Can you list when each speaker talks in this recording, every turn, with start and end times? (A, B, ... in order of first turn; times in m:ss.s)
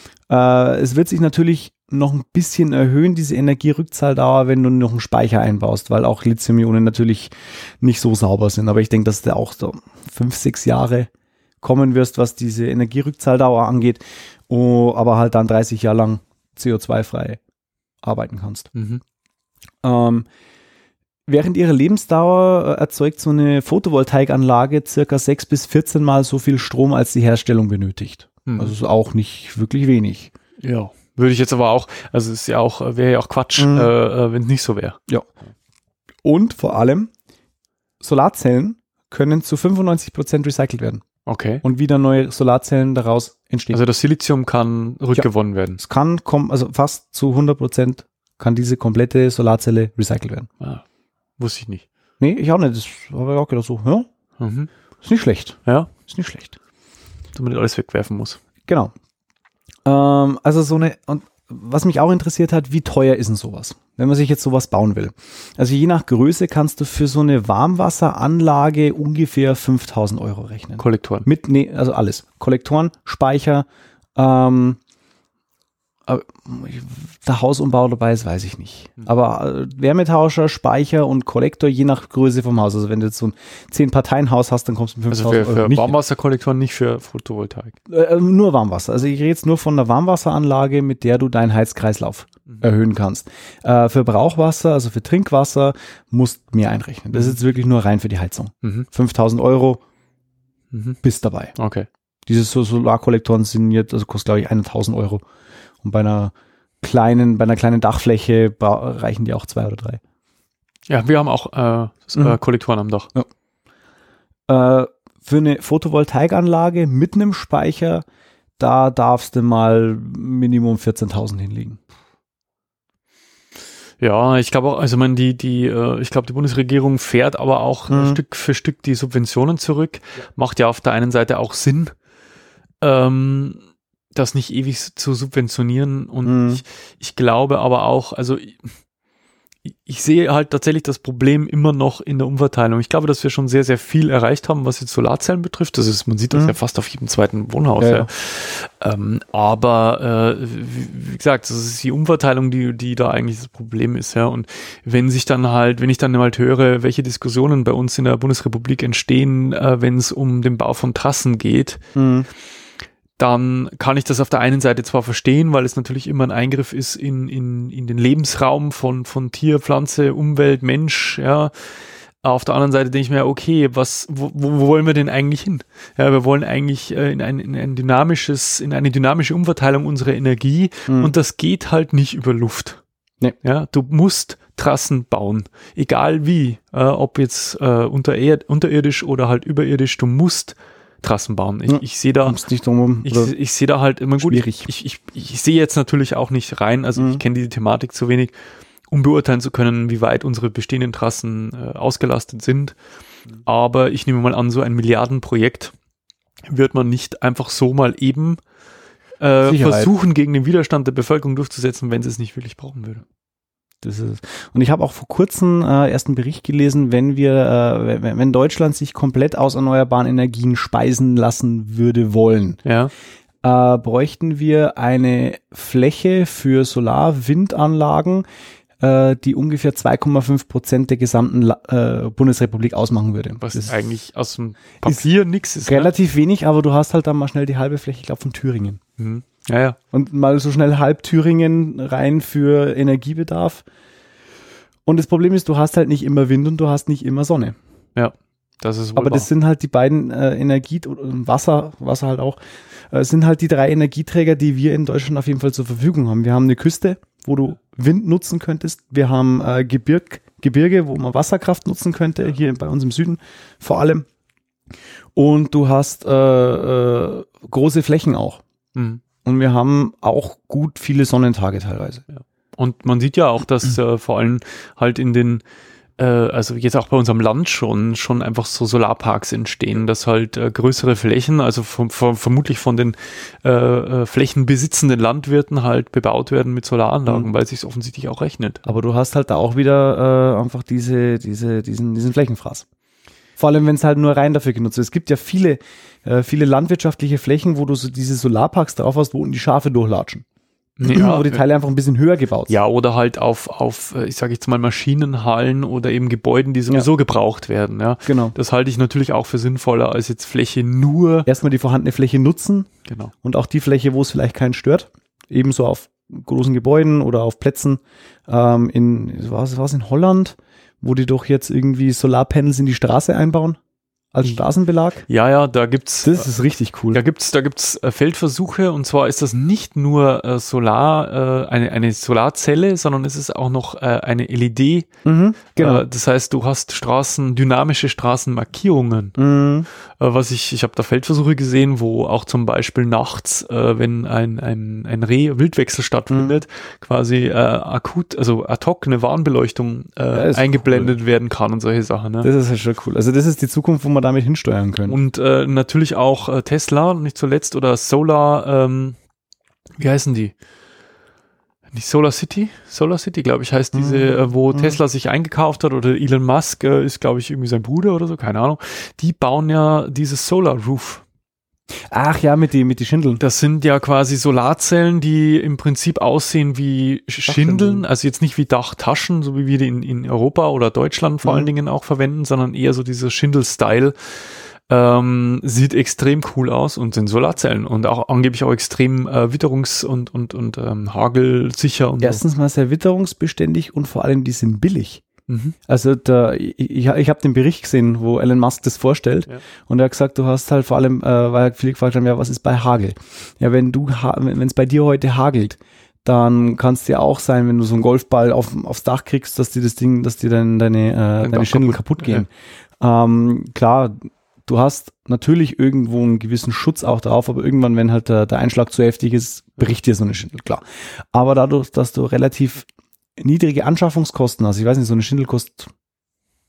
0:00.3-0:11.1 A
0:11.6-0:17.4 A
0:18.0-0:18.7 A
0:18.7-0:19.0 B
0:19.8-0:20.3 A
0:21.3-0:30.3 A
0:28.4-0:28.7 B
0:30.6-0:35.0 B
0:33.6-0:33.9 A
0:36.2-0:37.1 A
0:38.0-0:41.0 A
0:41.2-0:41.6 B
0:41.6-0:43.8 A
0:43.7-0:45.8 B
0:45.8-0:50.5 A
0:51.4-0:51.8 B
0:52.2-0:54.1 A
0:54.4-0:54.7 B
0:55.0-0:56.6 A
0:55.6-0:55.9 B
0:57.3-0:58.4 B
0:58.7-0:58.9 A
0:59.8-1:14.8 A
1:10.8-1:11.3 B
1:16.1-1:25.9 A
1:25.1-1:27.8 B
1:27.9-1:39.8 A
1:40.7-1:41.0 B
1:41.0-1:41.5 A
1:41.6-1:41.9 B
1:42.2-1:45.2 A
1:45.8-1:50.0 A
1:50.9-1:53.1 B
1:54.5-1:58.0 A
1:58.6-2:01.8 A
2:04.0-2:11.9 B
2:07.9-2:08.2 A
2:12.8-2:13.6 B
2:14.1-2:18.7 B
2:16.2-2:16.6 A
2:19.7-2:41.8 B
2:27.8-2:28.1 A
2:42.0-2:42.3 A
2:43.2-2:51.5 B
2:52.2-3:02.8 B
3:00.9-3:01.1 A
3:03.4-3:12.4 B
3:11.7-3:13.3 A
3:13.0-3:18.3 B
3:14.2-3:14.7 A
3:17.0-3:17.2 A
3:18.9-3:22.8 B
3:23.4-3:25.7 B
3:26.5-3:28.4 B
3:29.2-3:33.0 B
3:29.4-3:29.9 A
3:33.8-3:42.6 A
3:42.6-3:42.9 B
3:43.4-3:48.2 A
3:48.8-3:53.8 A
3:53.4-3:55.9 B
3:55.6-3:58.8 A
3:59.0-3:59.8 B
3:59.9-4:03.6 A
4:04.8-4:07.6 A
4:08.0-4:09.3 B
4:09.0-4:12.4 A
4:12.9-4:24.1 A
4:25.1-4:28.4 A
4:28.7-4:29.0 B
4:29.2-4:32.0 A
4:32.1-4:35.4 B
4:36.0-4:48.6 B
4:48.6-4:52.6 A
4:53.4-5:00.2 A
5:00.8-5:01.4 B
5:00.8-5:02.5 A
5:02.5-5:11.3 B
5:08.0-5:08.4 A
5:11.3-5:12.7 A
5:12.8-5:13.1 B
5:13.2-5:23.6 A
5:24.1-5:25.0 A
5:25.1-5:26.3 B
5:26.0-5:27.0 A
5:26.9-5:34.9 B
5:35.0-5:35.8 A
5:35.6-5:39.2 B
5:39.2-5:39.7 A
5:40.0-5:52.3 B
5:46.1-5:46.4 A
5:50.1-5:50.9 A
5:52.2-5:55.0 A
5:54.9-5:59.0 B
5:59.8-6:00.3 B
6:01.7-6:11.0 B
6:03.7-6:04.8 A
6:11.9-6:13.2 A
6:13.2-6:23.9 B
6:17.3-6:17.8 A
6:21.2-6:21.5 A
6:24.7-6:32.2 B
6:32.0-6:35.0 A
6:35.3-6:35.6 B
6:35.7-6:52.3 A
6:51.2-6:52.2 B
6:52.8-7:05.7 A